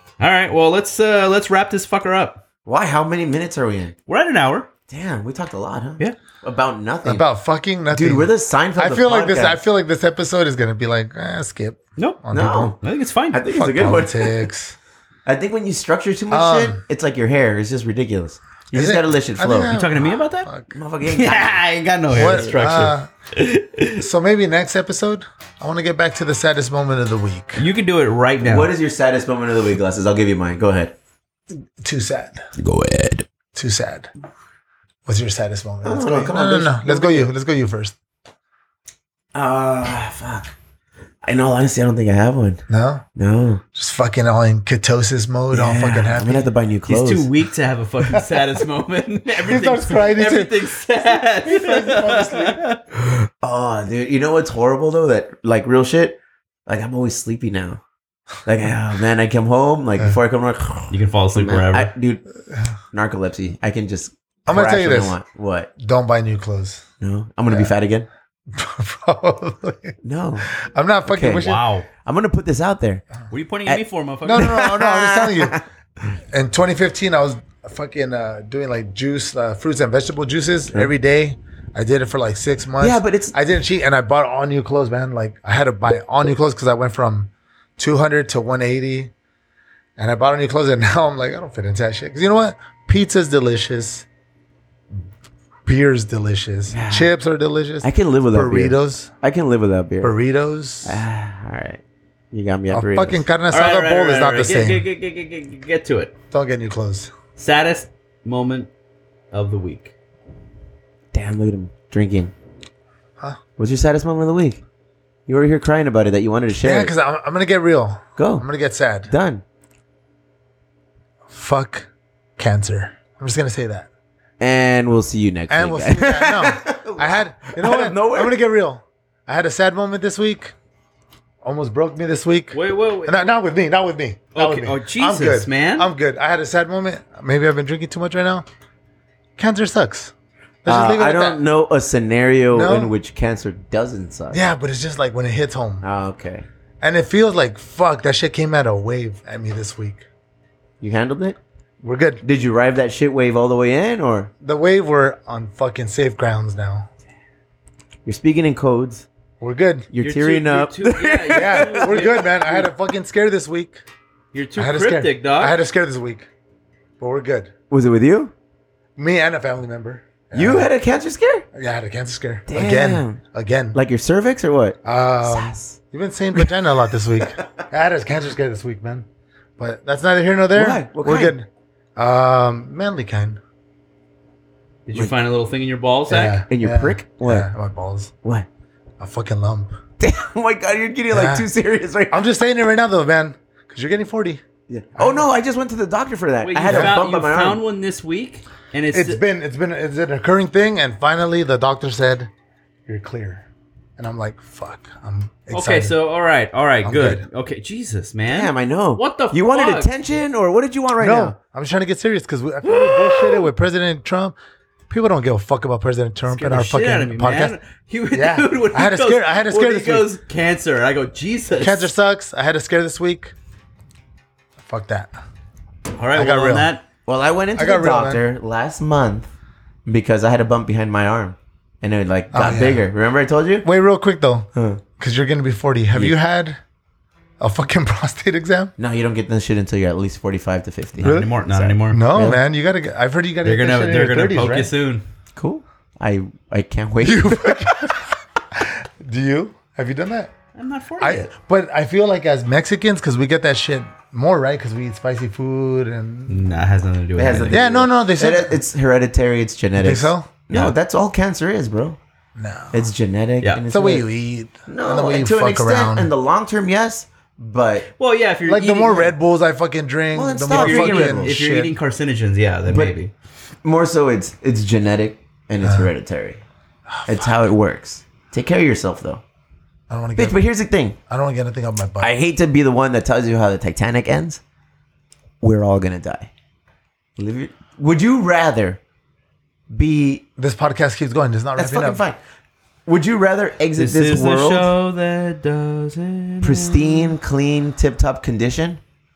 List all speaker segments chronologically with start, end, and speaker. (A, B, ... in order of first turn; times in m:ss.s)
0:00.2-0:02.4 A
0:02.6-0:03.9 B
0:04.1-0:04.7 A
0:04.9-0:07.2 B
0:07.0-0:12.7 C
0:07.9-0:09.6 B
0:12.0-0:13.4 A
0:12.3-0:12.8 B
0:13.3-0:14.5 B
0:13.5-0:14.8 C
0:15.2-0:19.7 B
0:16.3-0:16.8 C
0:18.7-0:20.8 C
0:19.7-0:20.5 A
0:20.7-0:21.6 B
0:21.0-0:24.0 A
0:22.1-0:22.5 B
0:22.1-0:23.1 C
0:24.0-0:27.7 C
0:27.6-0:28.7 A
0:28.4-0:30.9 B
0:31.8-0:32.4 C
0:32.6-0:33.2 B
0:33.5-0:34.1 C
0:35.0-0:37.9 C
0:35.8-0:37.3 B
0:39.3-0:40.5 B
0:41.2-0:42.6 B
0:42.7-0:43.0 C
0:43.2-0:43.6 B
0:43.7-0:46.5 C
0:45.5-0:47.3 B
0:46.9-0:52.8 A
0:48.1-0:48.4 C
0:49.4-0:52.6 C
0:53.3-0:57.8 B
0:58.4-1:02.2 B
1:00.9-1:01.9 A
1:02.9-1:05.7 B
1:04.5-1:05.2 C
1:05.8-1:06.8 C
1:07.0-1:08.1 B
1:07.5-1:07.7 C
1:08.5-1:10.0 C
1:10.0-1:10.5 B
1:10.5-1:11.6 C
1:11.1-1:11.5 B
1:11.3-1:11.9 A
1:12.0-1:13.0 B
1:13.3-1:14.6 A
1:14.2-1:15.6 C
1:14.3-1:15.6 B
1:16.3-1:29.1 C
1:22.8-1:23.3 B
1:30.0-1:34.0 C
1:35.6-1:39.1 C
1:36.7-1:37.1 B
1:37.8-1:40.1 B
1:40.0-1:41.0 C
1:40.8-1:43.2 B
1:42.7-1:44.8 C
1:43.5-1:46.1 A
1:46.3-1:47.1 C
1:47.4-1:48.7 A
1:49.3-1:49.9 A
1:51.1-1:52.3 B
1:53.6-1:54.6 B
1:55.3-1:56.9 B
1:56.6-1:59.1 C
1:58.2-1:58.4 B
1:59.1-1:59.4 B
2:01.3-2:03.9 C
2:04.4-2:08.4 B
2:05.5-2:10.5 C
2:11.4-2:18.4 C
2:12.5-2:13.2 A
2:14.3-2:15.9 A
2:19.4-2:20.1 C
2:20.6-2:21.4 C
2:20.7-2:24.4 B
2:22.5-2:23.0 C
2:24.3-2:25.8 C
2:25.8-2:26.4 B
2:26.8-2:30.0 C
2:30.8-2:31.4 B
2:31.8-2:32.2 C
2:32.2-2:34.3 B
2:34.4-2:36.9 C
2:38.0-2:39.1 B
2:39.4-2:39.9 C
2:39.9-2:42.2 B
2:40.0-2:42.7 A
2:41.3-2:43.8 C
2:44.3-2:45.6 A
2:44.6-2:46.3 C
2:47.0-2:47.5 C
2:47.7-2:48.3 B
2:49.0-2:50.7 C
2:50.3-2:51.5 B
2:51.5-2:53.8 C
2:52.5-2:53.2 B
2:53.7-2:55.8 B
2:54.8-2:59.0 C
2:57.2-2:57.6 B
2:59.6-3:03.4 C
3:00.5-3:01.3 B
3:04.9-3:06.4 A
3:06.1-3:08.1 C
3:06.5-3:07.5 B
3:09.0-3:09.7 C
3:10.0-3:12.2 B
3:11.1-3:11.5 C
3:12.1-3:14.4 C
3:14.7-3:17.6 B
3:15.0-3:15.2 C
3:16.4-3:19.2 A
3:16.6-3:17.0 C
3:18.9-3:22.3 C
3:22.8-3:23.4 C
3:24.0-3:26.0 C
3:25.5-3:30.2 A
3:26.8-3:27.2 C
3:28.3-3:31.3 B
3:31.0-3:34.4 C
3:32.6-3:33.5 A
3:34.9-3:37.6 C
3:36.3-3:41.9 A
3:38.1-3:40.1 C
3:41.6-3:43.3 C
3:44.6-3:45.1 C
3:46.0-3:46.8 A
3:46.1-3:46.7 C
3:47.0-3:49.3 B
3:47.6-3:48.2 C
3:49.8-3:53.6 B
3:52.3-3:52.9 C
3:53.6-3:56.6 C
3:54.5-3:54.8 B
3:57.4-3:58.7 C
3:58.8-4:02.4 B
4:01.0-4:02.0 A
4:01.0-4:01.3 C
4:01.9-4:04.7 C
4:03.4-4:05.0 A
4:05.4-4:07.9 B
4:07.0-4:10.3 C
4:10.5-4:11.3 A
4:11.0-4:16.4 C
4:16.3-4:17.6 A
4:17.2-4:22.0 B
4:17.5-4:18.6 C
4:19.8-4:20.3 C
4:20.5-4:20.7 A
4:22.4-4:22.9 C
4:22.7-4:24.0 B
4:23.7-4:26.1 C
4:24.7-4:27.9 B
4:28.0-4:29.1 A
4:28.4-4:31.7 C
4:30.1-4:31.4 B
4:30.5-4:33.1 A
4:32.7-4:33.0 B
4:33.6-4:36.4 B
4:35.6-4:35.9 C
4:36.9-4:37.3 C
4:37.0-4:39.2 B
4:39.9-4:40.4 C
4:40.2-4:41.0 B
4:41.1-4:42.1 C
4:42.0-4:44.4 B
4:45.4-4:46.3 B
4:47.2-4:48.8 B
4:49.7-4:50.2 B
4:50.4-4:52.0 C
4:51.6-4:52.2 B
4:52.9-4:54.7 B
4:53.8-4:57.2 A
4:56.4-4:58.8 B